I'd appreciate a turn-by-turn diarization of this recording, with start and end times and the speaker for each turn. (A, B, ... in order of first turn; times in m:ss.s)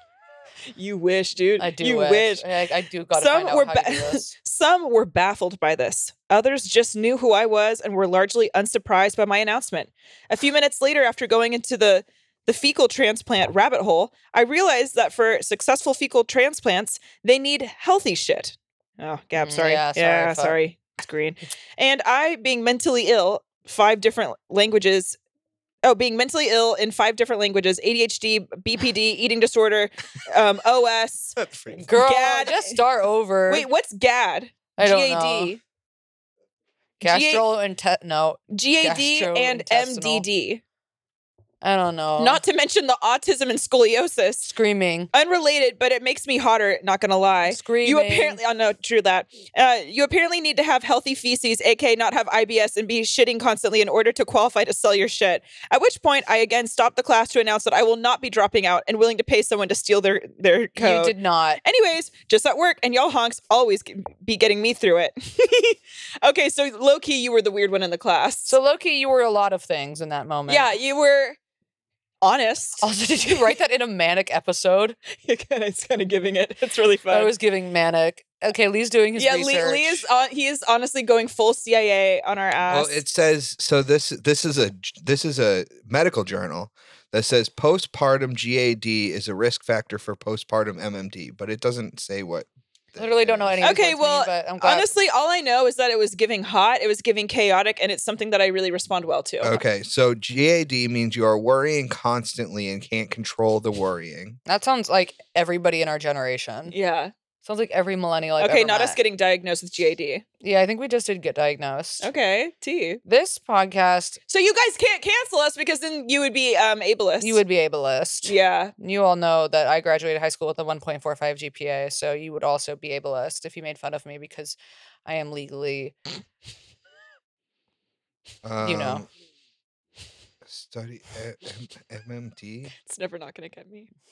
0:00.7-0:02.5 A
0:01.6-0:04.3 B
0:03.1-0:25.2 A
0:19.4-0:20.6 B
0:25.8-0:31.4 A
0:31.4-0:31.8 C
0:31.7-0:33.7 B
0:32.0-0:32.8 A
0:33.5-0:35.6 A
0:34.8-0:35.5 B
0:37.0-0:40.2 B
0:37.0-0:37.4 A
0:38.5-0:40.6 A
0:41.6-0:42.4 B
0:42.2-0:44.5 A
0:44.4-0:45.1 B
0:45.1-1:08.5 A
0:47.4-0:48.4 B
1:00.8-1:01.6 B
1:08.5-1:10.7 B
1:10.5-1:11.4 A
1:12.2-1:13.6 A
1:12.8-1:15.0 B
1:15.2-1:17.3 A
1:17.1-1:20.0 B
1:19.2-1:23.0 A
1:22.7-1:33.6 C
1:33.0-1:34.9 B
1:33.6-1:39.6 A
1:39.4-1:44.4 C
1:44.4-1:46.7 B
1:46.7-1:47.1 A
1:47.4-1:49.0 B
1:48.4-1:50.2 A
1:50.4-1:52.1 B
1:52.0-1:53.0 A
1:53.0-1:54.2 B
1:54.3-1:57.4 A
1:57.2-2:05.9 B
1:58.2-1:58.7 A
2:08.4-2:09.1 C
2:08.6-2:09.0 B
2:10.4-2:12.7 C
2:12.8-2:13.9 A